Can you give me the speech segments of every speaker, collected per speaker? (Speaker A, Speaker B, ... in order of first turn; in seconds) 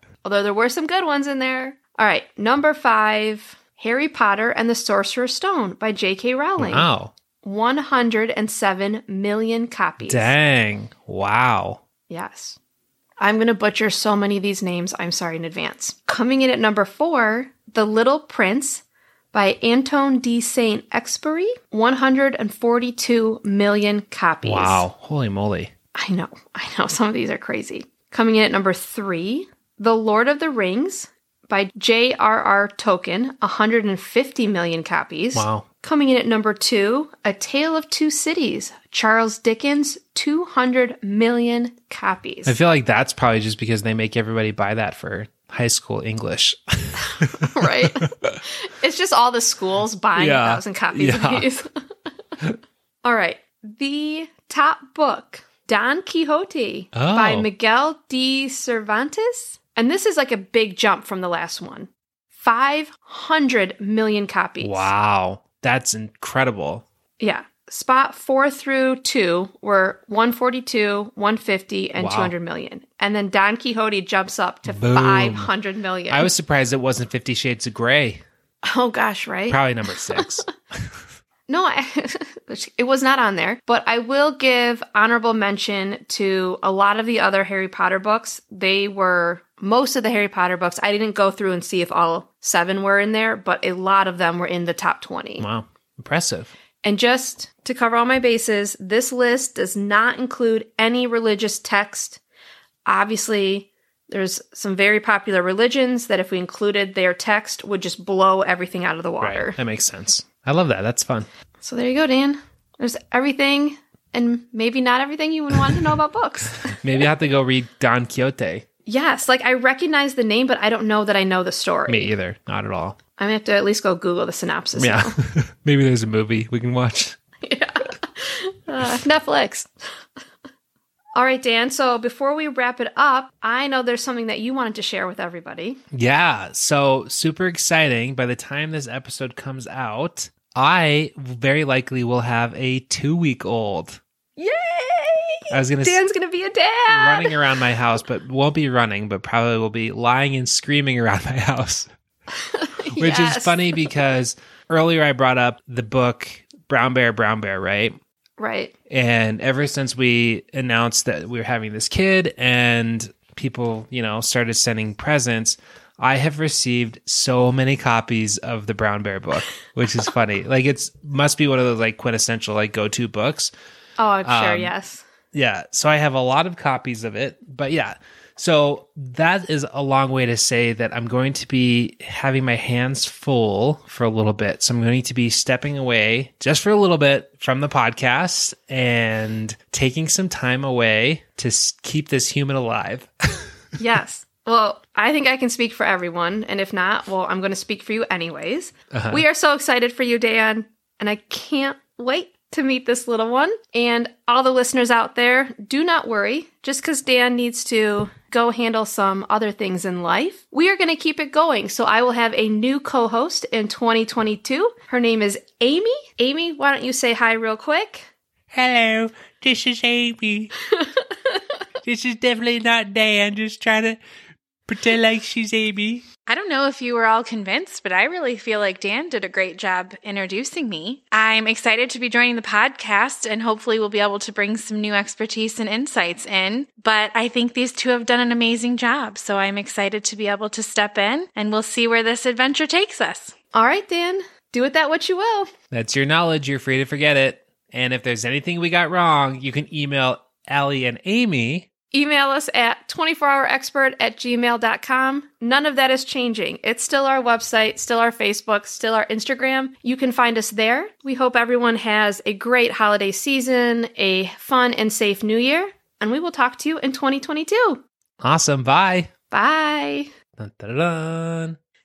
Speaker A: 0.2-6.9, 7.4-10.3, 12.1-12.6, 13.2-24.8, 25.9-42.5, 47.0-51.7, 53.0-64.9, 67.2-76.3, 78.6-80.5, 81.5-95.5, 96.8-102.2, 102.8-109.6, 111.6-116.8, 118.8-122.1, 123.2-125.2, 127.4-129.7, 131.1-135.8, 144.4-147.4, 152.4-153.9, 158.4-158.7, 174.0-175.0, 193.8-218.1, 243.5-245.5, 251.9-267.8, 269.3-270.1
Speaker B: 6.6-7.1, 10.0-11.8, 24.4-25.7, 35.3-35.6, 42.5-48.4, 50.2-51.5, 56.9-57.5, 64.6-66.8, 72.0-72.3, 74.7-75.5, 76.1-78.2, 79.5-81.0, 95.4-96.5, 109.2-111.3, 116.8-118.6, 121.9-123.0, 124.8-127.2, 135.9-144.0, 145.5-146.0, 146.9-151.9, 153.0-158.0, 158.9-173.5, 174.2-174.7, 175.3-193.5, 198.9-199.2, 218.5-220.5, 221.8-224.0, 224.7-226.1, 245.7-251.7, 268.2-269.1, 270.4-271.6
Speaker C: 226.2-243.3